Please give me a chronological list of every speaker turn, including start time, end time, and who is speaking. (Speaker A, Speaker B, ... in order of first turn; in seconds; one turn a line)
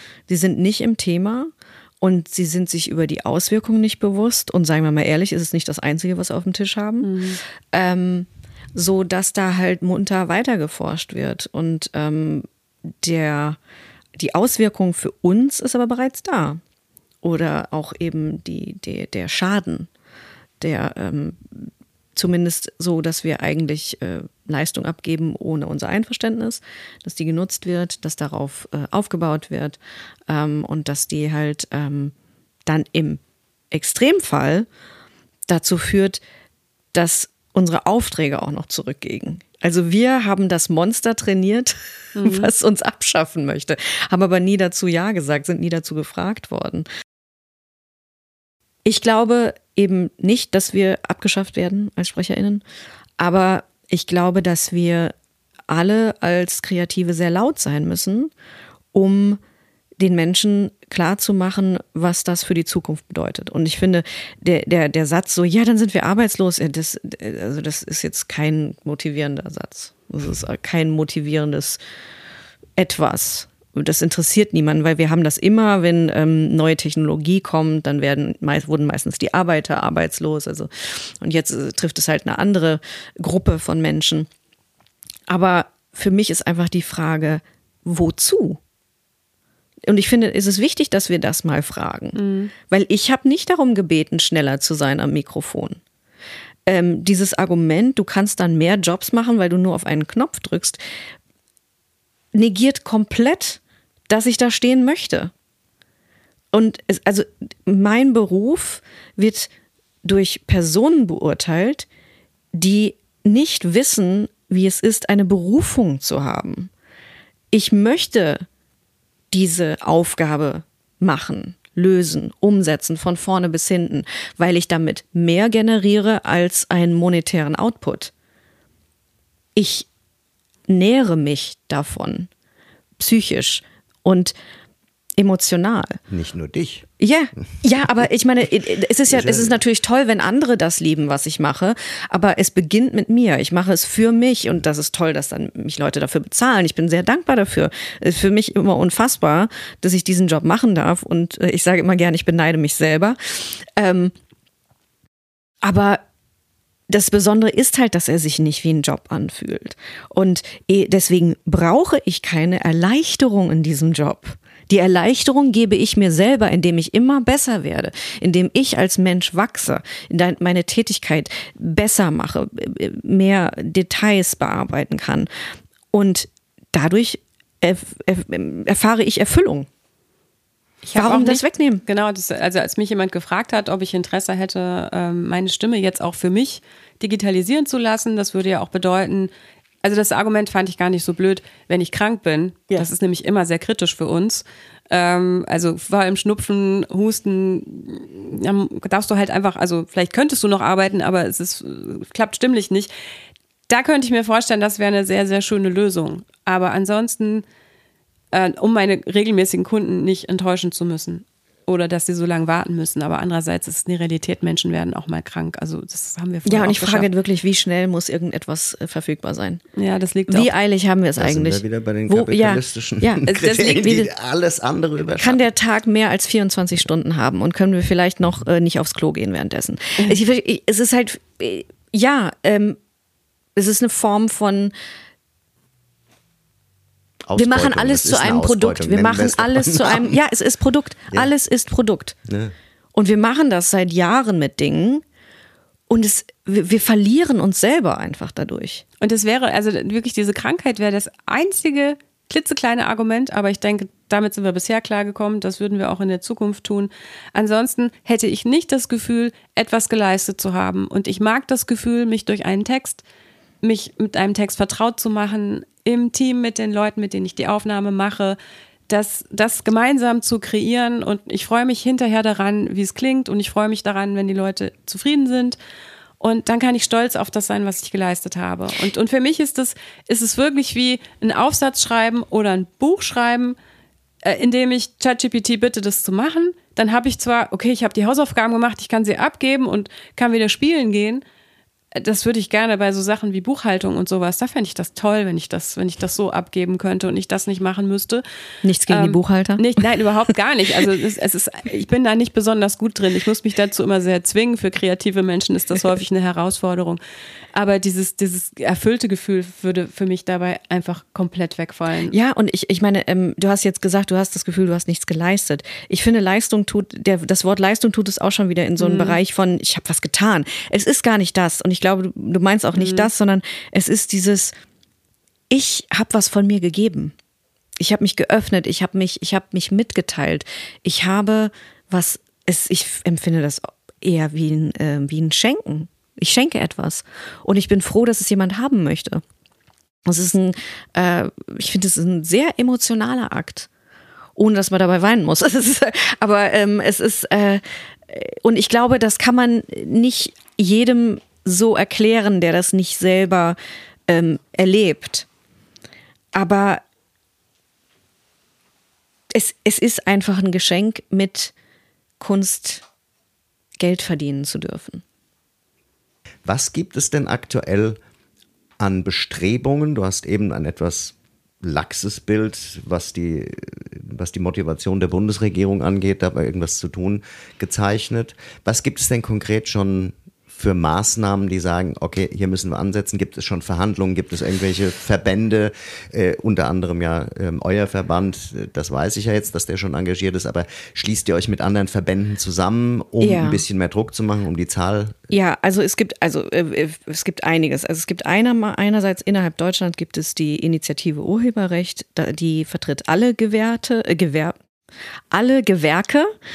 Speaker A: 0.3-7.2
Speaker B: 7.0-7.4
Speaker A: 7.7-13.6
Speaker A: 14.2-16.6
Speaker A: 17.2-19.9
Speaker A: 20.6-32.1
Speaker A: 32.6-34.7
Speaker A: 35.5-36.2
Speaker A: 36.9-46.9
Speaker B: 42.1-42.5
Speaker A: 48.8-52.6
Speaker A: 53.2-55.1
Speaker A: 55.7-58.3
Speaker A: 58.9-59.4
Speaker A: 60.0-71.8
Speaker A: 72.8-84.3
Speaker A: 85.3-88.6
Speaker A: 89.8-95.8
Speaker B: 92.1-92.5
Speaker A: 96.7-100.8
Speaker A: 102.3-105.3
Speaker A: 106.5-109.5
Speaker A: 110.0-111.9
Speaker A: 112.5-116.7
Speaker A: 117.5-118.4
Speaker A: 119.3-128.1
Speaker A: 129.6-129.9
Speaker A: 130.7-132.3
Speaker A: 133.0-134.3
Speaker A: 135.2-136.0
Speaker C: 136.1-136.9
Speaker A: 137.0-154.1
Speaker C: 139.1-139.6
Speaker A: 155.6-156.0
Speaker A: 156.9-175.3
Speaker A: 175.9-179.7
Speaker B: 180.8-189.3
Speaker A: 180.9-181.8
Speaker B: 189.8-202.9
Speaker B: 203.7-207.4
Speaker B: 208.3-217.1
Speaker A: 216.4-219.6
Speaker B: 219.8-220.5
Speaker A: 220.3-224.1
Speaker C: 221.2-225.4
Speaker B: 223.2-223.9
Speaker A: 225.2-232.8
Speaker A: 233.6-234.7
Speaker C: 237.3-240.2
Speaker A: 237.3-242.2
Speaker C: 242.3-242.5
Speaker A: 242.9-245.0
Speaker A: 245.9-248.8
Speaker B: 249.0-263.0
Speaker B: 263.6-268.4
Speaker B: 268.9-275.6
Speaker B: 276.2-283.6
Speaker B: 284.2-291.2
Speaker B: 291.9-298.2
Speaker A: 298.6-299.8
Speaker B: 298.9-307.0
Speaker B: 307.5-312.1
Speaker A: 312.1-324.5
Speaker B: 318.8-319.2
Speaker B: 322.7-323.1
Speaker A: 325.5-327.1
Speaker A: 327.8-339.2
Speaker A: 340.1-343.7
Speaker A: 344.4-355.2
Speaker A: 356.3-356.8
Speaker A: 359.3-361.5
Speaker A: 362.2-362.8
Speaker A: 363.8-365.0
Speaker C: 366.4-368.0
Speaker C: 368.8-395.2
Speaker A: 393.2-393.6
Speaker A: 395.3-404.6
Speaker A: 405.3-406.3